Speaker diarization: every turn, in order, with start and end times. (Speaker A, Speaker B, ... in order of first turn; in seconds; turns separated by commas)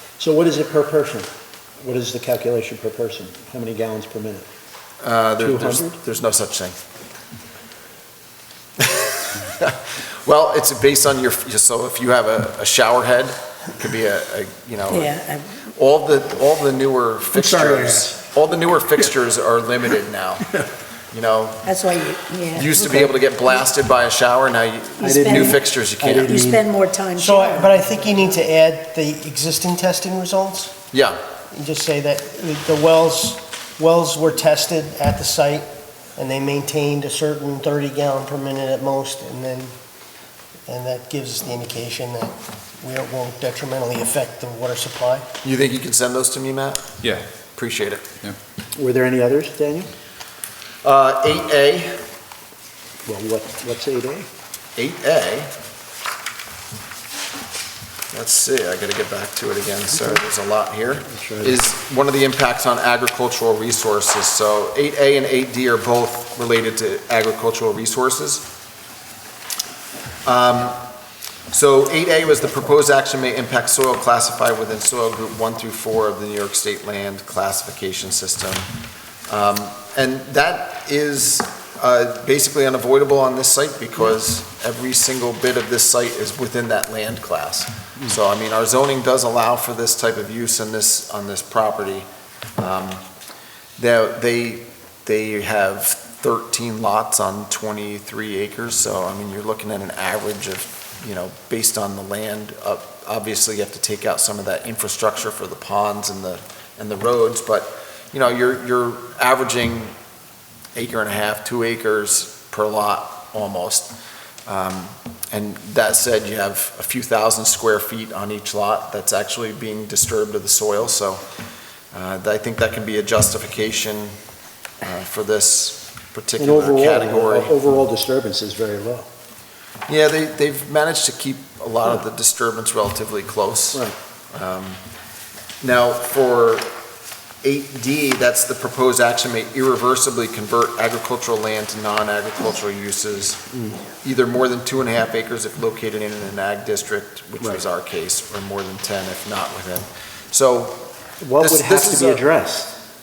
Speaker A: 0.2-1.3, Speaker A: 1.8-4.5, Speaker B: 5.0-6.8, Speaker A: 5.4-6.0, Speaker B: 8.8-20.5, Speaker C: 14.9-15.6, Speaker A: 17.3-18.2, Speaker A: 20.4-20.7, Speaker B: 21.1-21.7, Speaker C: 21.6-23.6, Speaker B: 22.5-26.5, Speaker C: 25.0-25.7, Speaker A: 25.0-26.6, Speaker C: 26.2-28.1, Speaker D: 27.2-30.8, Speaker B: 30.9-31.2, Speaker D: 31.5-35.7, Speaker D: 36.2-39.7, Speaker D: 40.7-45.3, Speaker B: 45.4-46.9, Speaker B: 47.5-48.0, Speaker A: 48.8-49.9, Speaker B: 50.8-52.0, Speaker A: 53.1-54.3, Speaker B: 54.8-55.5, Speaker B: 58.1-68.5, Speaker A: 59.9-60.2, Speaker A: 61.1-61.6, Speaker B: 70.2-70.8, Speaker B: 71.5-78.7, Speaker B: 79.3-93.0, Speaker B: 93.8-109.9, Speaker B: 110.8-113.9, Speaker B: 114.5-121.2, Speaker B: 121.9-124.2, Speaker B: 124.8-127.5, Speaker A: 126.4-129.1, Speaker B: 129.9-134.8, Speaker B: 135.6-136.7, Speaker B: 137.4-143.4, Speaker A: 143.5-143.8, Speaker B: 144.0-150.9, Speaker A: 151.2-152.8, Speaker B: 151.4-152.2